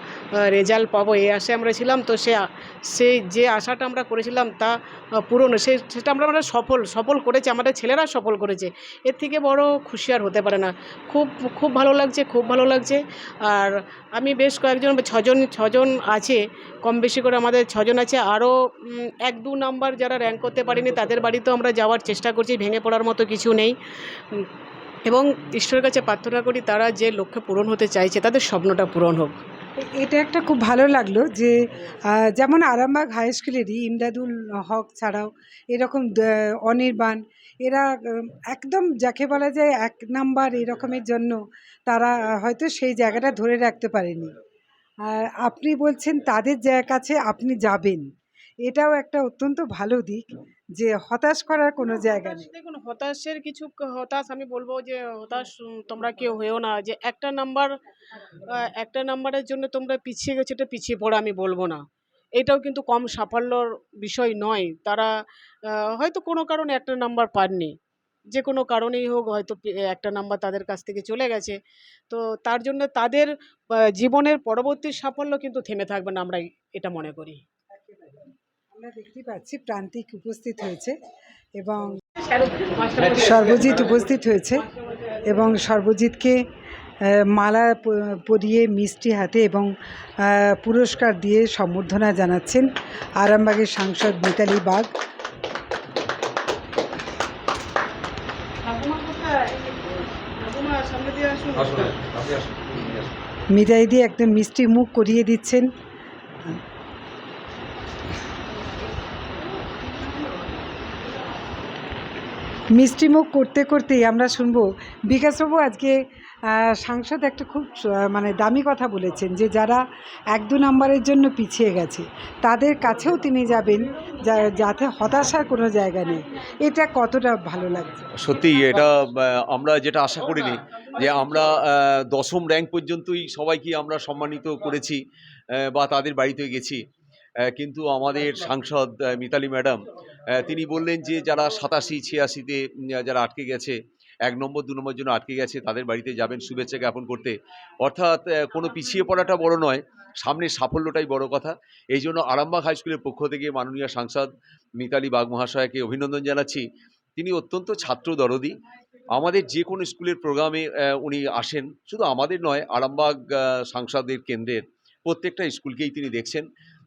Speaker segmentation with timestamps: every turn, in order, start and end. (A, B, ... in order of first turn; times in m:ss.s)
0:00.4-0:23.7 A
0:25.0-0:29.4 A
0:29.8-0:44.3 B
0:45.0-0:48.0 B
0:48.6-0:52.5 B
0:51.8-1:01.8 A
1:02.4-1:05.1 A
1:05.7-1:07.7 A
1:08.3-1:11.6 A
1:12.1-1:17.4 A
1:17.7-1:20.9 B
1:21.6-1:22.0 B
1:22.2-1:25.6 A
1:23.0-1:24.1 C
1:23.2-1:24.6 B
1:25.3-1:26.4 B
1:27.0-1:34.9 B
1:38.6-1:42.0 A
1:41.5-1:43.1 C
1:43.5-1:45.7 B
1:49.6-1:51.4 A
1:52.7-2:08.1 B
2:08.1-2:15.0 C
2:15.5-2:16.8 C
2:17.4-2:34.3 C
2:34.8-2:38.6 C
2:39.1-2:46.4 C